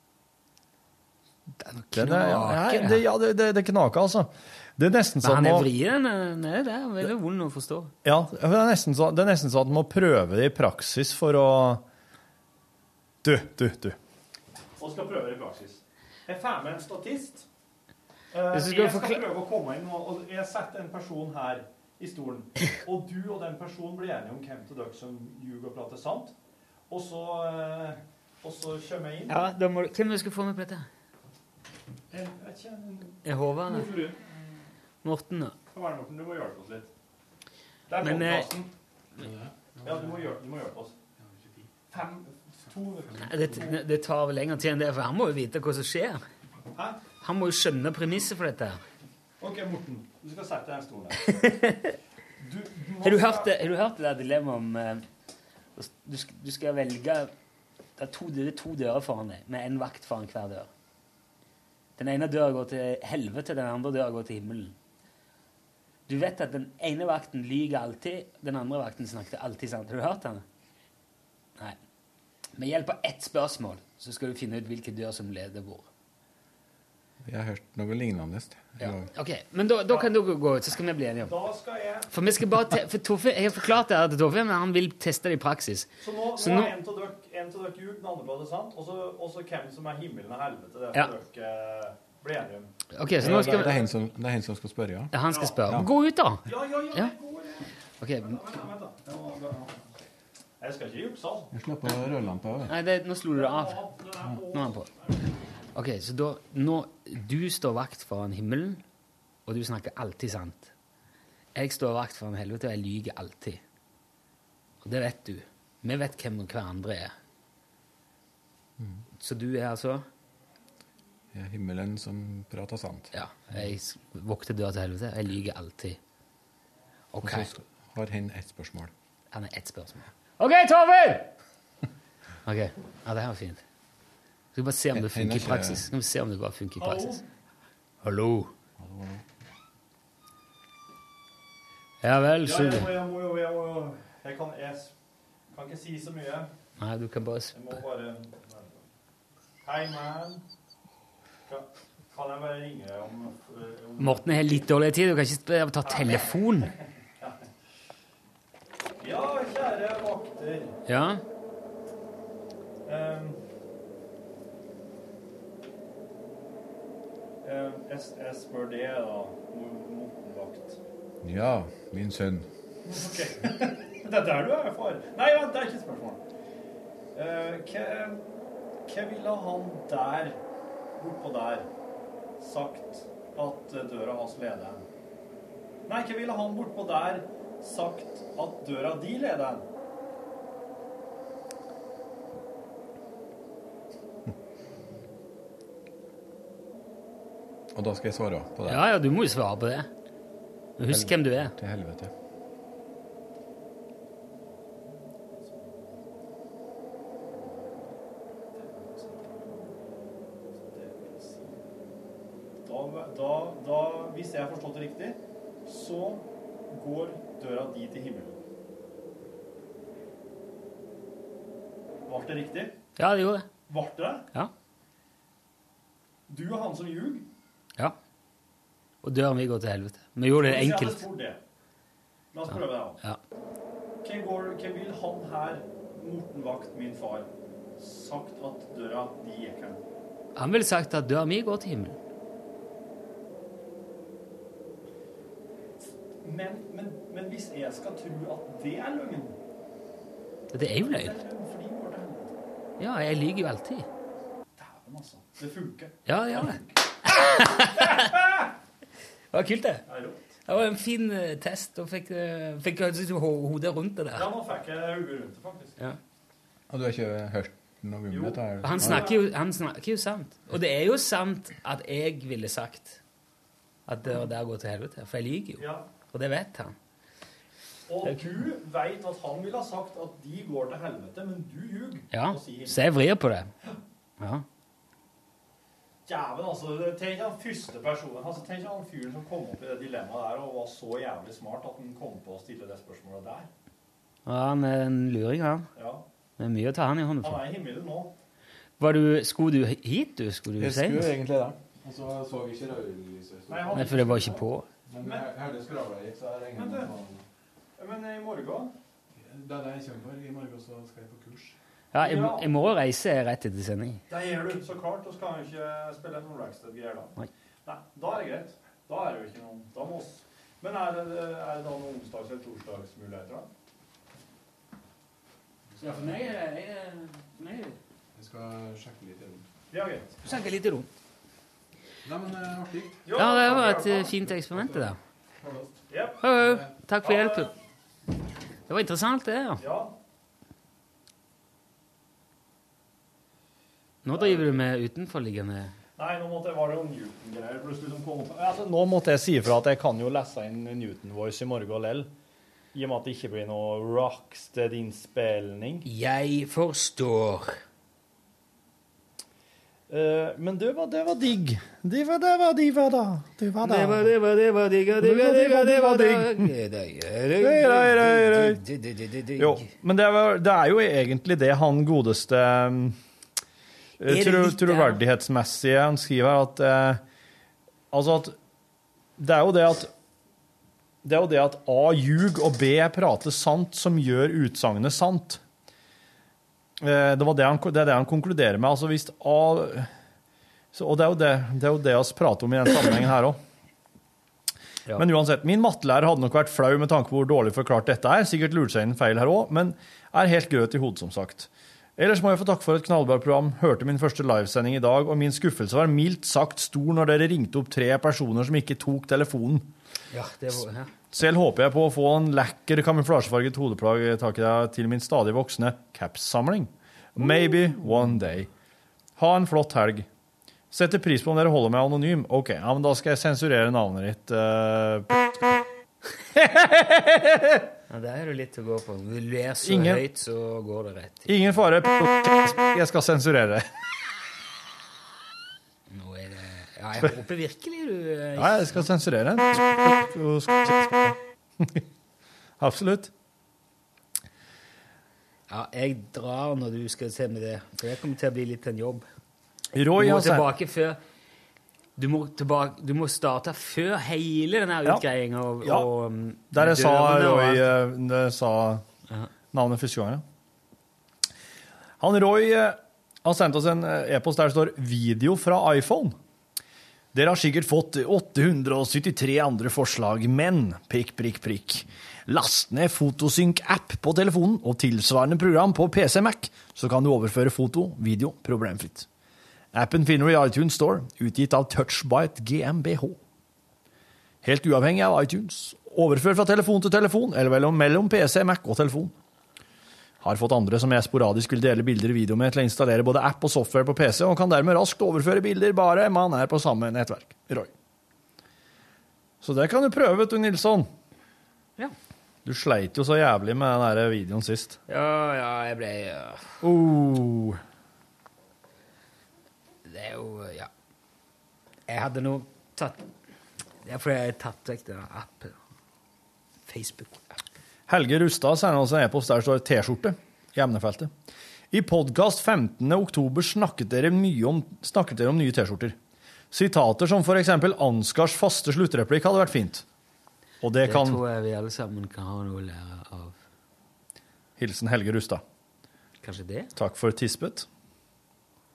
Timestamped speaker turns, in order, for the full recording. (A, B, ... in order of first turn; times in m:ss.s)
0:01.6-0:03.0 A
0:01.9-0:05.7 B
0:05.2-0:07.9 A
0:08.0-0:11.8 B
0:13.2-0:14.0 B
0:14.8-0:17.5 B
0:18.3-0:26.4 B
0:18.5-0:19.2 A
0:26.9-0:29.4 B
0:29.3-0:30.9 A
0:32.1-0:34.2 B
0:33.2-0:33.9 A
0:35.0-0:35.6 A
0:35.7-0:36.9 B
0:37.9-0:38.7 B
0:38.0-0:38.5 A
0:39.2-0:40.2 C
0:39.8-0:41.0 B
0:41.9-0:43.8 B
0:43.2-0:46.2 A
0:46.7-0:47.0 B
0:47.2-0:48.8 A
0:49.4-0:51.5 B
0:51.3-0:52.0 A
0:52.4-0:53.5 B
0:53.0-0:55.1 A
0:55.8-0:57.3 A
0:58.0-1:00.7 A
1:02.0-1:04.8 A
1:06.1-1:10.4 A
1:12.6-1:15.9 A
1:17.2-1:19.1 C
1:18.8-1:21.3 A
1:21.2-1:22.1 B
1:22.1-1:26.7 A
1:26.0-1:32.7 B
1:32.9-1:33.8 A
1:33.2-1:35.1 C
1:33.2-1:33.9 B
1:35.1-1:37.1 A
1:35.3-1:35.8 B
1:36.4-1:39.8 B
1:38.0-1:38.4 A
1:40.6-1:41.5 B
1:41.5-1:42.7 C
1:42.7-1:43.8 A
1:43.3-1:45.2 B
1:44.5-1:44.9 A
1:45.7-1:48.8 A
1:49.5-1:50.7 A
1:51.6-1:53.6 A
1:54.8-1:57.2 A
1:59.1-2:00.0 A
2:01.3-2:03.6 C
2:03.1-2:06.0 A
2:07.1-2:07.5 A
2:07.2-2:08.9 C
2:09.3-2:11.3 A
2:12.4-2:13.6 A
2:14.6-2:17.2 A
2:14.9-2:15.8 C
2:16.8-2:17.2 B
2:18.0-2:18.5 A
2:18.8-2:19.2 C
2:22.0-2:22.9 A
2:22.4-2:24.9 B
2:25.5-2:26.5 B
2:26.8-2:27.7 A
2:27.5-2:28.8 B
2:29.6-2:30.4 B
2:31.5-2:34.6 B
2:34.0-2:36.7 A
2:35.8-2:37.4 B
2:39.0-2:40.8 B
2:40.9-2:41.2 A
2:42.9-2:43.4 B
2:47.4-2:50.8 B
2:51.2-2:52.5 C
2:52.8-2:56.2 B
2:57.1-2:58.2 B
2:58.9-3:00.4 B
3:01.0-3:01.7 B
3:02.4-3:04.8 B
3:05.9-3:09.6 B
3:17.7-3:18.8 C
3:18.7-3:19.9 A
3:20.8-3:21.5 A
3:20.9-3:22.1 C
3:25.3-3:26.0 B
3:27.2-3:28.0 B
3:28.5-3:31.6 B
3:32.6-3:38.4 B
3:42.1-3:42.8 B
3:43.0-3:43.5 A
3:43.7-3:44.3 B
3:46.3-3:47.3 B
3:49.0-3:51.1 A
3:50.4-3:51.4 B
3:52.3-3:53.0 B
3:54.0-3:59.8 B
4:00.4-4:02.0 A
4:06.2-4:09.4 B
4:10.5-4:11.1 A
4:10.8-4:12.3 B
4:12.8-4:13.9 A
4:14.6-4:18.5 B
4:16.1-4:18.2 A
4:19.3-4:19.8 A
4:19.9-4:20.2 B
4:20.5-4:24.3 A
4:24.2-4:25.8 B
4:26.7-4:29.1 C
4:28.1-4:29.2 B
4:28.6-4:33.0 A
4:33.9-4:36.8 A
4:35.6-4:35.9 B
4:37.9-4:42.8 B
4:42.1-4:43.5 A
4:44.2-4:44.4 A
4:46.1-4:53.5 B
4:54.3-4:55.7 A
4:55.8-4:56.0 B
4:56.4-4:57.4 A
4:57.2-4:58.1 B
4:58.8-5:01.1 A
5:00.6-5:03.9 C
5:03.5-5:04.4 B
5:03.7-5:04.7 A
5:04.9-5:07.2 C
5:05.0-5:05.3 B
5:06.5-5:07.0 B
5:07.8-5:08.7 B
5:09.2-5:11.6 C
5:11.9-5:14.0 A
5:12.0-5:12.6 B
5:14.1-5:17.1 B
5:17.6-5:23.5 B
5:25.8-5:26.2 C
5:25.8-5:27.8 A
5:28.2-5:29.4 C
5:29.7-5:30.1 B
5:30.2-5:30.9 A
5:32.0-5:33.1 C
5:33.1-5:34.1 B
5:33.1-5:35.0 A
5:34.5-5:35.8 C
5:35.9-5:36.2 B
5:36.2-5:37.5 A
5:37.0-5:37.5 B
5:38.7-5:39.6 A
5:39.6-5:39.9 B
5:44.0-5:45.8 A
5:44.1-5:44.5 B
5:46.0-5:52.1 B
5:52.7-5:55.9 B
5:55.8-5:57.6 A
5:59.9-6:04.1 B
6:03.6-6:09.7 A
6:05.0-6:06.5 B
6:07.4-6:08.6 B
6:09.4-6:13.0 B
6:14.0-6:17.0 B
6:14.0-6:15.0 A
6:17.9-6:18.4 B
6:19.2-6:19.9 B
6:21.0-6:25.4 B
6:26.8-6:29.9 B
6:30.7-6:33.4 B
6:35.0-6:49.7 B
6:50.1-6:50.9 A
6:51.1-6:58.5 B
6:59.2-7:00.1 B
7:00.7-7:05.5 B
7:06.3-7:07.7 B
7:07.9-7:11.5 A
7:09.6-7:10.0 B
7:11.3-7:13.7 B
7:15.9-7:18.9 A
7:18.4-7:21.8 B
7:22.6-7:23.1 B
7:25.5-7:29.1 A
7:29.7-7:30.5 B
7:30.0-7:31.0 A
7:32.0-7:37.7 A
7:35.6-7:35.9 B
7:36.5-7:38.8 B
7:39.5-7:40.2 B
7:42.0-7:46.2 B
7:47.1-7:59.1 B
7:59.7-8:03.2 B
8:04.4-8:09.2 B
8:10.2-8:17.7 B
8:19.4-8:20.9 B
8:22.4-8:24.8 B
8:24.9-8:26.6 A
8:26.6-8:27.6 B
8:29.9-8:30.7 A
8:31.9-8:33.1 A
8:33.8-8:35.6 A
8:36.7-8:37.4 A
8:37.9-8:41.1 B
8:41.7-8:46.0 B
8:46.5-8:49.8 B
8:50.6-8:51.2 B
8:50.8-8:53.4 A
8:54.6-8:55.4 B
8:56.2-8:56.7 A
8:56.8-8:57.7 B